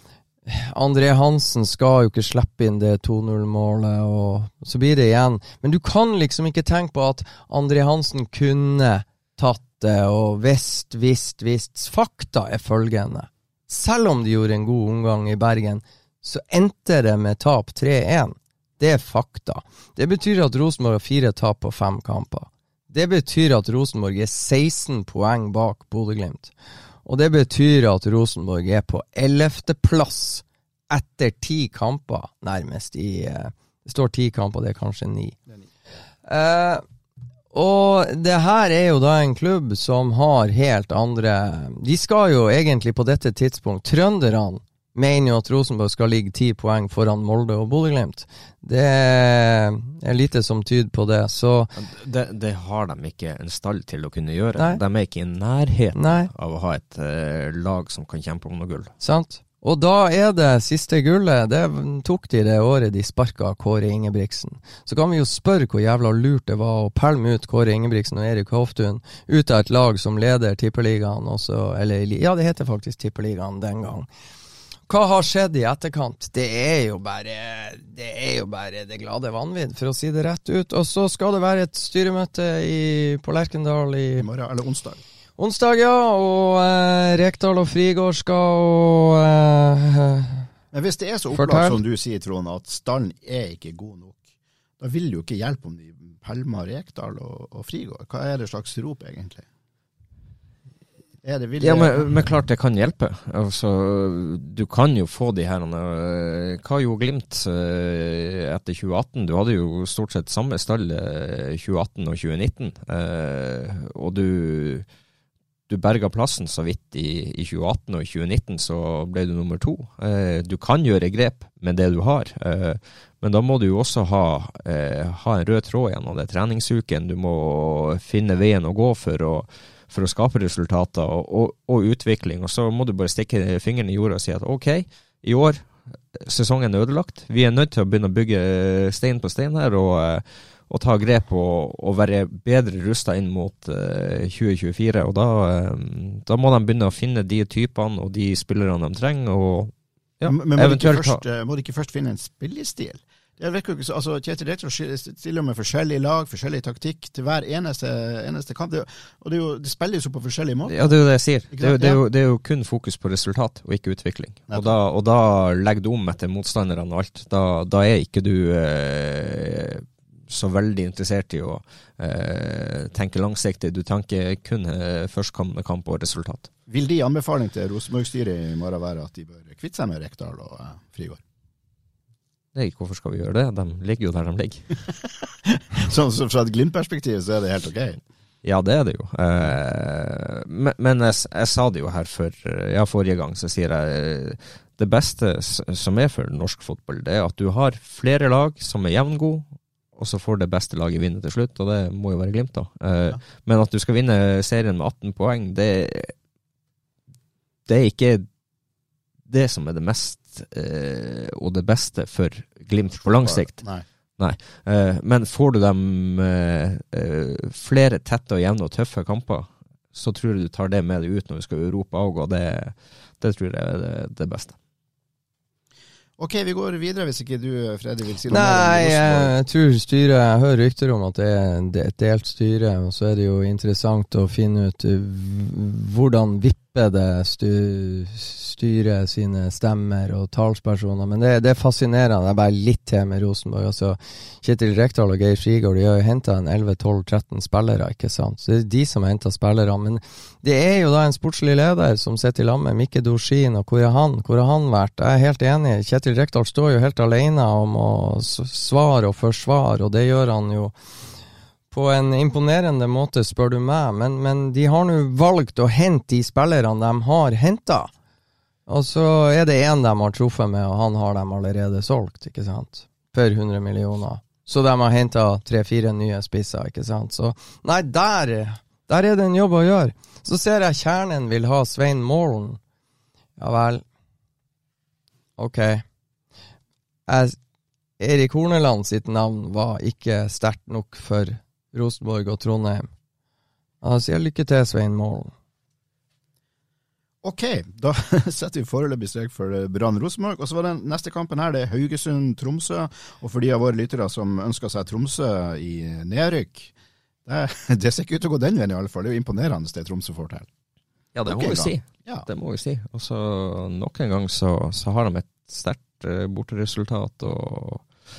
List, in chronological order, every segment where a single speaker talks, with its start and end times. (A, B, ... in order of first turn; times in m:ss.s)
0:00.5-0:26.5 A
0:27.1-0:35.4 A
0:36.3-0:36.8 A
0:37.5-0:51.7 A
0:51.8-0:58.9 B
0:56.0-0:56.3 A
0:59.0-1:14.1 A
1:14.9-1:24.3 A
1:24.2-1:25.0 C
1:25.4-1:30.5 A
1:30.7-1:34.2 C
1:31.3-1:31.8 A
1:34.8-1:39.4 C
1:41.2-1:42.1 C
1:41.6-1:54.9 B
1:55.7-2:31.2 B
2:30.3-2:41.0 C
2:40.7-2:56.5 B
2:41.5-2:42.0 C
2:44.5-2:44.8 C
2:56.7-3:01.2 C
3:02.6-3:04.8 B
3:05.5-3:08.0 C
3:08.4-3:26.1 B
3:27.7-3:28.3 B
3:29.3-3:33.6 B
3:33.0-3:33.8 C
3:34.2-3:44.6 B
3:46.2-3:49.4 C
3:48.3-4:20.8 A
4:21.7-4:27.9 A
4:28.7-4:42.6 A
4:43.4-4:43.8 A
4:45.4-4:45.8 A
4:47.1-4:47.4 A
4:48.0-4:52.9 A
4:53.8-4:55.3 A
4:57.2-5:06.7 C
5:07.3-5:10.5 C
5:11.2-5:17.9 B
5:11.3-5:12.3 C